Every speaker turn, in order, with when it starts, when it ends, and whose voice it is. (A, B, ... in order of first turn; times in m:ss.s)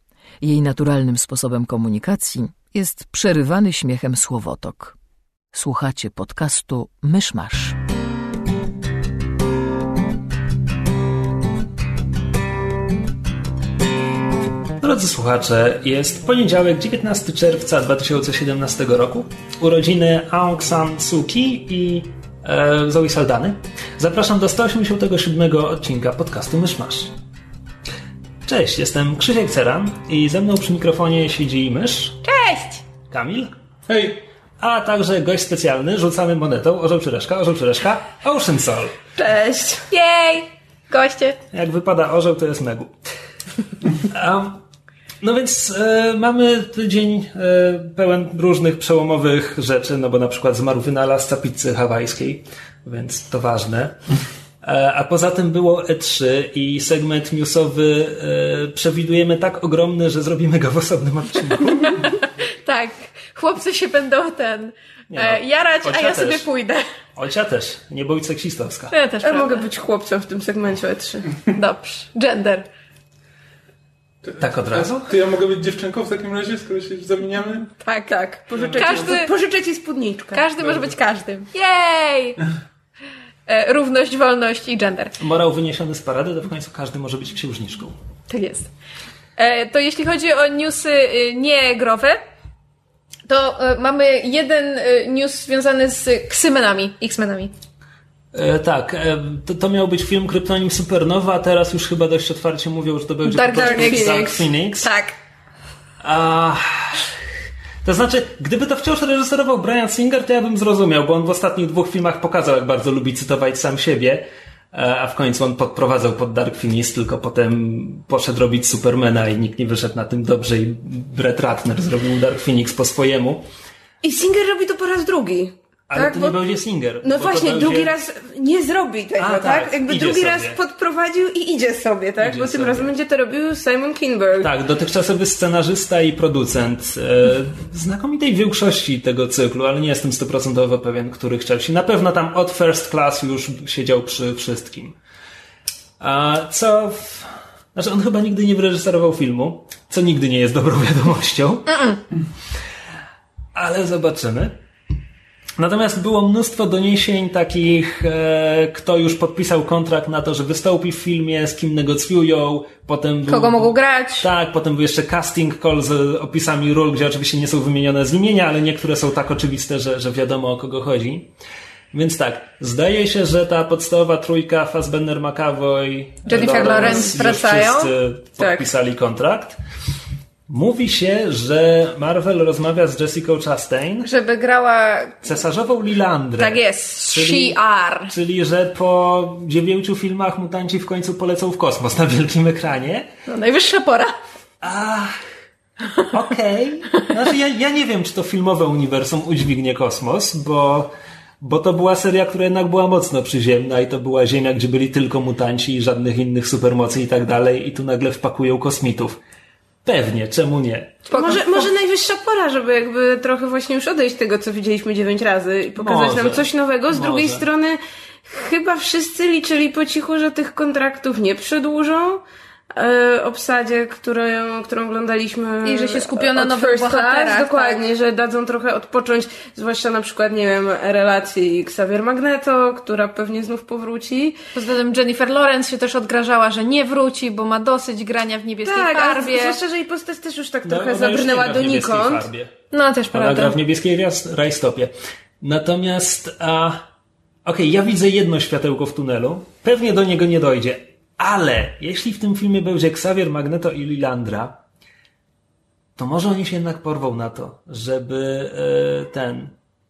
0:00.4-0:04.9 A
0:05.5-0:07.8 A
0:14.8-0:27.1 B
0:28.4-0:32.2 B
0:32.2-0:32.8 C
0:33.1-0:33.6 B
0:33.9-0:34.2 D
0:34.6-0:39.0 B
0:39.2-0:39.8 E
0:39.9-0:41.4 C
0:41.5-0:42.9 B
0:44.0-0:44.6 B
0:45.2-0:54.0 B
0:54.6-1:02.0 B
1:01.8-1:06.8 C
1:05.1-1:06.5 B
1:07.2-1:08.9 B
1:08.9-1:09.6 C
1:09.2-1:11.3 E
1:11.5-1:12.7 C
1:14.2-1:17.7 D
1:14.4-1:15.1 B
1:17.8-1:19.3 C
1:18.1-1:20.4 E
1:18.6-1:19.0 D
1:20.3-1:22.4 C
1:20.6-1:20.9 D
1:23.5-1:25.2 C
1:25.2-1:28.0 B
1:28.3-1:28.7 C
1:29.4-1:32.2 C
1:33.3-1:37.5 C
1:38.3-1:44.9 B
1:43.2-1:45.1 C
1:43.6-1:44.4 E
1:46.0-1:47.1 B
1:47.8-2:03.4 B
2:04.0-2:06.4 E
2:05.9-2:07.9 B
2:07.0-2:14.5 E
2:09.2-2:10.6 B
2:12.2-2:12.9 B
2:14.4-2:25.0 B
2:26.0-2:31.9 B
2:33.5-2:34.6 B
2:35.6-2:51.3 B
2:43.3-2:44.3 C
2:51.9-2:59.6 B
2:56.2-2:57.9 C
2:56.4-2:56.9 E
2:58.4-2:58.6 E
3:00.5-3:04.1 B
3:04.0-3:05.3 C
3:05.2-3:13.1 B
3:06.4-3:08.1 C
3:13.3-3:14.2 C
3:14.6-3:15.2 B
3:16.0-3:29.2 B
3:29.8-3:31.3 B
3:31.1-3:31.6 C
3:31.1-3:54.4 E
3:35.8-3:37.5 B
3:45.6-3:47.8 C
3:54.5-3:59.6 C
3:58.6-4:02.2 E
4:00.6-4:02.5 B
4:02.7-4:03.6 C
4:03.1-4:06.9 B
4:07.4-4:14.6 B
4:16.0-4:19.5 B